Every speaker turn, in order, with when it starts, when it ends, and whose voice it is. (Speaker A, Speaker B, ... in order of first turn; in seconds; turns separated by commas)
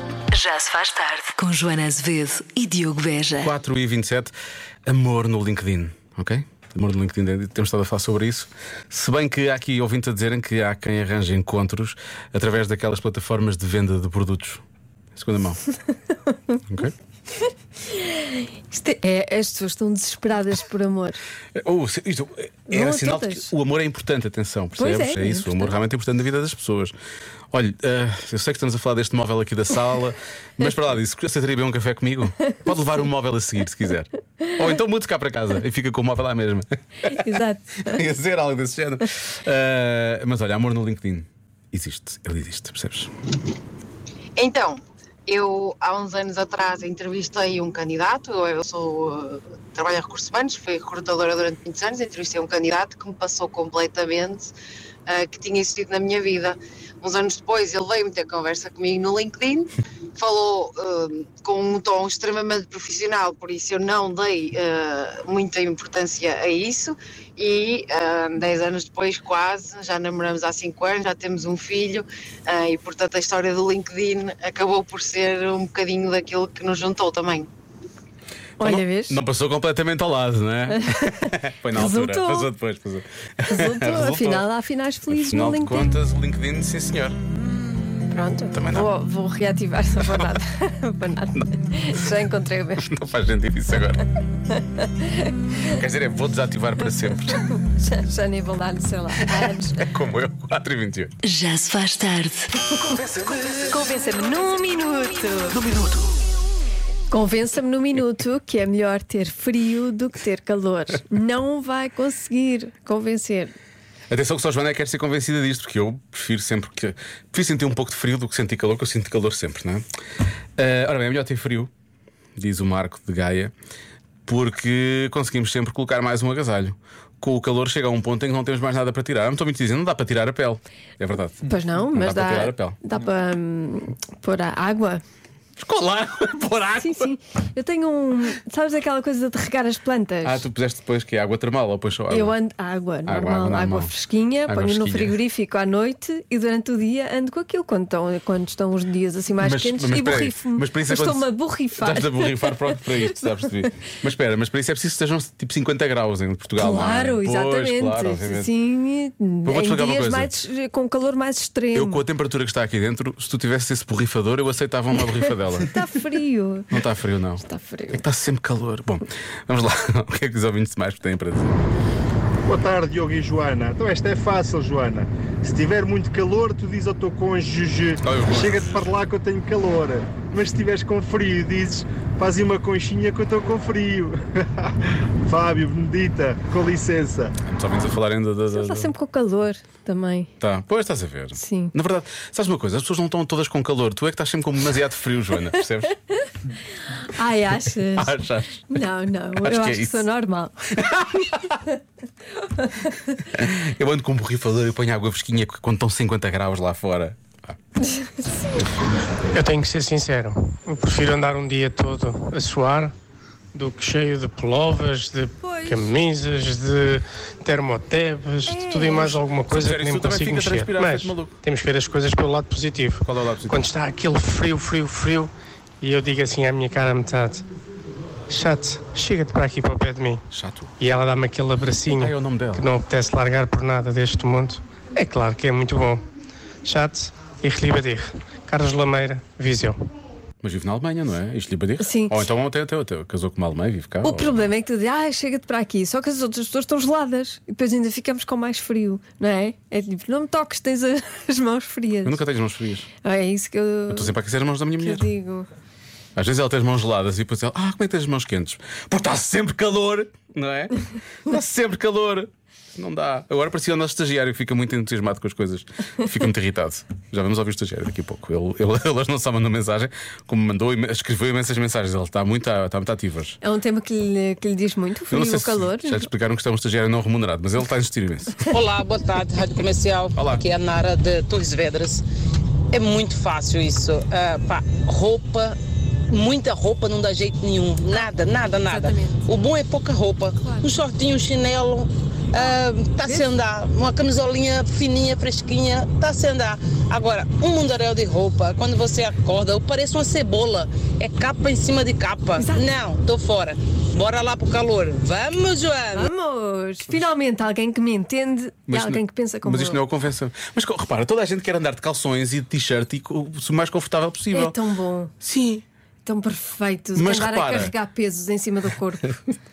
Speaker A: 0.3-3.5, Speaker B: 3.4-4.3, Speaker B: 4.9-14.6, Speaker B: 15.1-15.6, Speaker C: 16.3-16.6, Speaker B: 16.7-16.9, Speaker C: 17.9-21.2, Speaker B: 21.6-26.9, Speaker C: 22.7-23.5, Speaker C: 24.8-25.7, Speaker B: 27.5-37.2, Speaker C: 32.5-33.0, Speaker C: 37.1-38.0, Speaker B: 37.8-43.1, Speaker D: 44.4-54.5, Speaker D: 55.1-77.5, Speaker C: 78.6-79.2, Speaker B: 78.6-84.4, Speaker C: 80.7-82.5, Speaker C: 83.5-85.9, Speaker B: 85.1-87.2, Speaker C: 88.1-92.9, Speaker B: 88.5-88.9, Speaker B: 90.1-90.3, Speaker B: 92.8-94.0, Speaker C: 94.5-95.4, Speaker B: 95.7-97.5, Speaker C: 97.5-99.9, Speaker B: 99.2-101.1, Speaker A: 101.2-102.5, Speaker B: 102.8-103.7, Speaker C: 103.7-105.6, Speaker B: 105.5-106.1, Speaker C: 107.1-113.5, Speaker B: 114.1-119.8, Speaker B: 120.6-121.7, Speaker B: 122.4-123.5, Speaker B: 124.2-132.8, Speaker C: 131.4-135.0, Speaker B: 135.6-137.1, Speaker C: 136.8-140.4, Speaker B: 140.2-142.4, Speaker C: 142.1-153.1, Speaker B: 143.1-145.2, Speaker B: 149.4-151.3, Speaker B: 151.8-158.5, Speaker C: 156.6-162.0, Speaker B: 159.4-160.3, Speaker B: 161.7-165.8, Speaker C: 165.7-166.8, Speaker B: 166.7-171.6, Speaker C: 167.4-168.0, Speaker E: 172.5-184.2, Speaker B: 178.0-178.9, Speaker E: 185.3-187.3, Speaker B: 187.4-188.9, Speaker C: 188.5-190.3, Speaker B: 190.4-195.9, Speaker C: 191.3-191.7, Speaker C: 196.9-198.1, Speaker B: 197.9-198.8, Speaker C: 198.7-200.6, Speaker B: 199.4-200.1, Speaker B: 200.8-201.6, Speaker C: 202.6-203.0, Speaker B: 203.3-207.5, Speaker C: 207.8-208.6, Speaker F: 209.3-212.9, Speaker F: 213.5-227.4, Speaker C: 215.4-215.9, Speaker C: 218.5-219.2, Speaker B: 219.5-221.3, Speaker B: 223.0-223.7, Speaker F: 228.3-230.2, Speaker B: 230.3-230.7, Speaker F: 230.8-236.0, Speaker B: 231.9-232.7, Speaker F: 236.6-239.8, Speaker B: 240.4-244.3, Speaker C: 241.8-242.2, Speaker C: 244.0-252.2, Speaker B: 252.0-252.9, Speaker C: 253.0-254.2, Speaker B: 253.9-255.1, Speaker C: 254.8-255.5, Speaker B: 256.2-273.4, Speaker C: 273.4-276.1, Speaker B: 275.1-278.4, Speaker G: 278.5-282.0, Speaker B: 280.2-280.4, Speaker G: 282.7-285.6, Speaker G: 286.1-306.1, Speaker C: 288.6-289.3, Speaker C: 290.4-290.7, Speaker C: 292.3-293.3, Speaker C: 302.4-302.7, Speaker C: 305.9-309.8, Speaker B: 308.7-314.6, Speaker C: 314.3-315.1, Speaker B: 315.2-315.6, Speaker C: 316.1-319.2, Speaker B: 316.9-317.7